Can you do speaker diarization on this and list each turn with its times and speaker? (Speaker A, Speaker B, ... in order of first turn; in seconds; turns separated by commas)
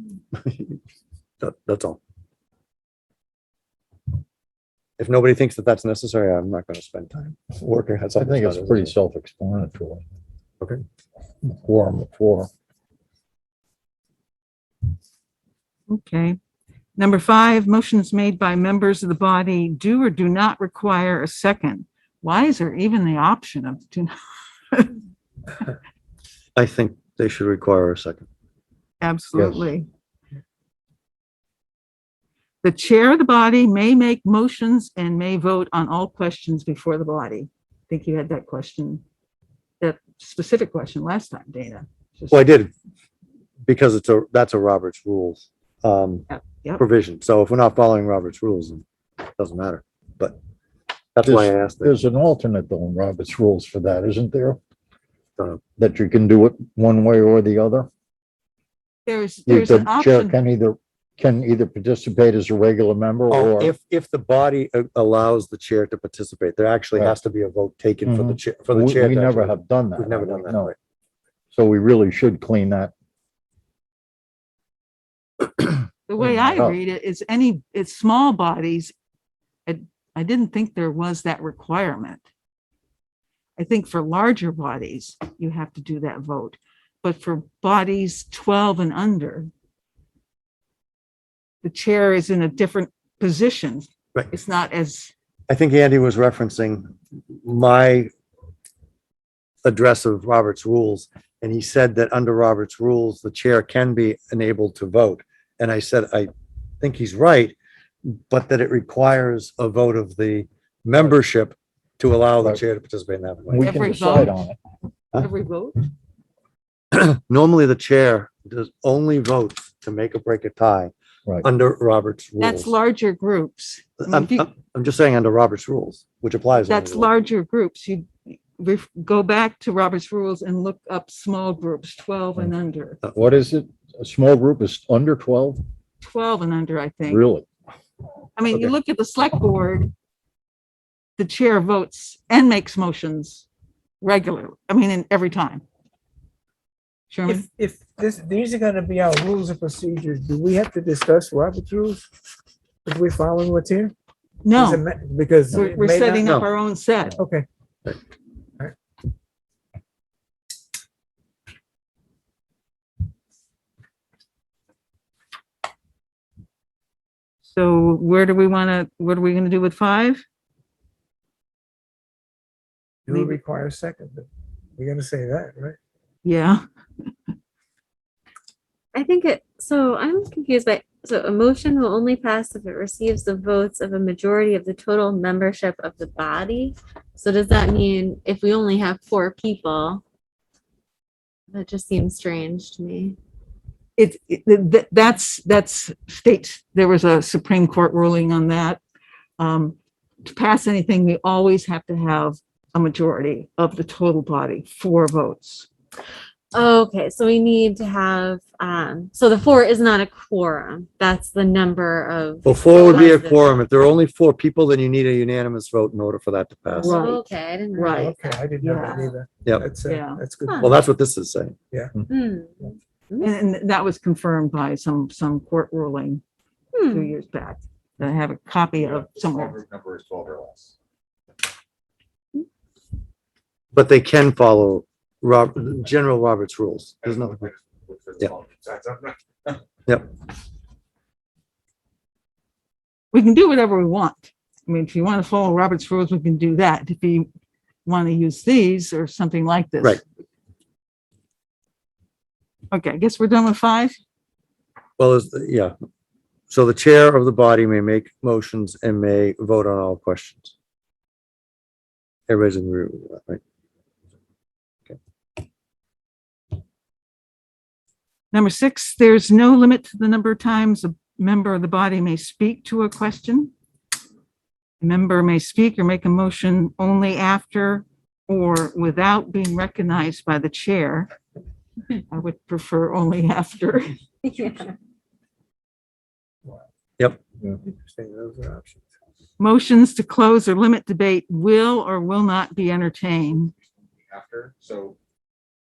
Speaker A: 0.3-0.8, Speaker A: 1.4-2.0, Speaker A: 5.0-8.9, Speaker B: 8.2-10.0, Speaker B: 11.4-12.5, Speaker C: 15.9-16.4, Speaker C: 17.0-24.1, Speaker C: 24.7-25.0, Speaker A: 26.6-28.2, Speaker C: 29.0-29.9, Speaker B: 29.3-29.7, Speaker C: 32.6-39.0, Speaker C: 39.8-42.4, Speaker A: 42.3-42.7, Speaker A: 43.7-50.4, Speaker C: 46.3-46.8, Speaker A: 51.1-51.9, Speaker B: 51.2-54.6, Speaker B: 55.8-57.9, Speaker C: 59.0-60.4, Speaker B: 59.5-63.7, Speaker A: 63.3-70.8, Speaker B: 68.0-70.7, Speaker B: 71.5-72.9, Speaker C: 76.1-78.9, Speaker B: 76.2-76.8, Speaker C: 79.7-82.2, Speaker C: 83.6-89.5, Speaker C: 91.6-95.1, Speaker A: 95.5-98.1, Speaker A: 99.6-106.3, Speaker A: 106.8-107.5, Speaker A: 108.0-114.0, Speaker B: 113.5-114.6, Speaker C: 113.6-114.4, Speaker C: 115.1-115.8, Speaker A: 116.9-120.9, Speaker A: 121.4-122.7, Speaker C: 122.4-124.5, Speaker A: 124.0-127.2, Speaker C: 126.7-133.0, Speaker B: 133.1-135.6, Speaker C: 136.0-137.3, Speaker B: 137.1-137.4, Speaker C: 138.3-139.9, Speaker C: 141.2-143.4, Speaker C: 144.0-145.6, Speaker C: 147.1-147.4, Speaker D: 147.2-152.0, Speaker D: 152.8-153.9, Speaker C: 154.4-154.8, Speaker D: 154.5-156.4, Speaker C: 155.5-157.2, Speaker D: 157.2-157.4, Speaker C: 167.4-170.2, Speaker D: 173.1-175.8, Speaker C: 173.1-173.4, Speaker C: 176.2-176.6, Speaker E: 178.9-190.0, Speaker E: 191.5-193.2, Speaker C: 194.0-198.8, Speaker C: 199.4-205.7, Speaker E: 206.5-213.6, Speaker A: 212.4-217.0, Speaker E: 216.7-218.2, Speaker C: 216.8-219.1, Speaker D: 217.8-220.7, Speaker E: 218.8-219.1, Speaker A: 219.4-219.7, Speaker C: 219.9-220.2, Speaker E: 220.5-220.7, Speaker A: 220.6-221.5, Speaker E: 222.1-223.3, Speaker C: 223.2-226.2, Speaker E: 226.7-227.1, Speaker C: 226.9-229.6, Speaker F: 229.2-230.7, Speaker A: 233.7-237.5, Speaker F: 237.1-239.1, Speaker C: 243.1-247.3, Speaker C: 247.8-250.0, Speaker C: 252.7-253.9, Speaker A: 255.0-255.7, Speaker A: 256.5-260.5, Speaker A: 262.3-263.4, Speaker C: 268.3-273.5, Speaker C: 274.8-281.1, Speaker C: 282.1-283.9, Speaker E: 284.2-284.8, Speaker D: 287.7-288.8, Speaker C: 289.4-293.5, Speaker F: 294.1-294.9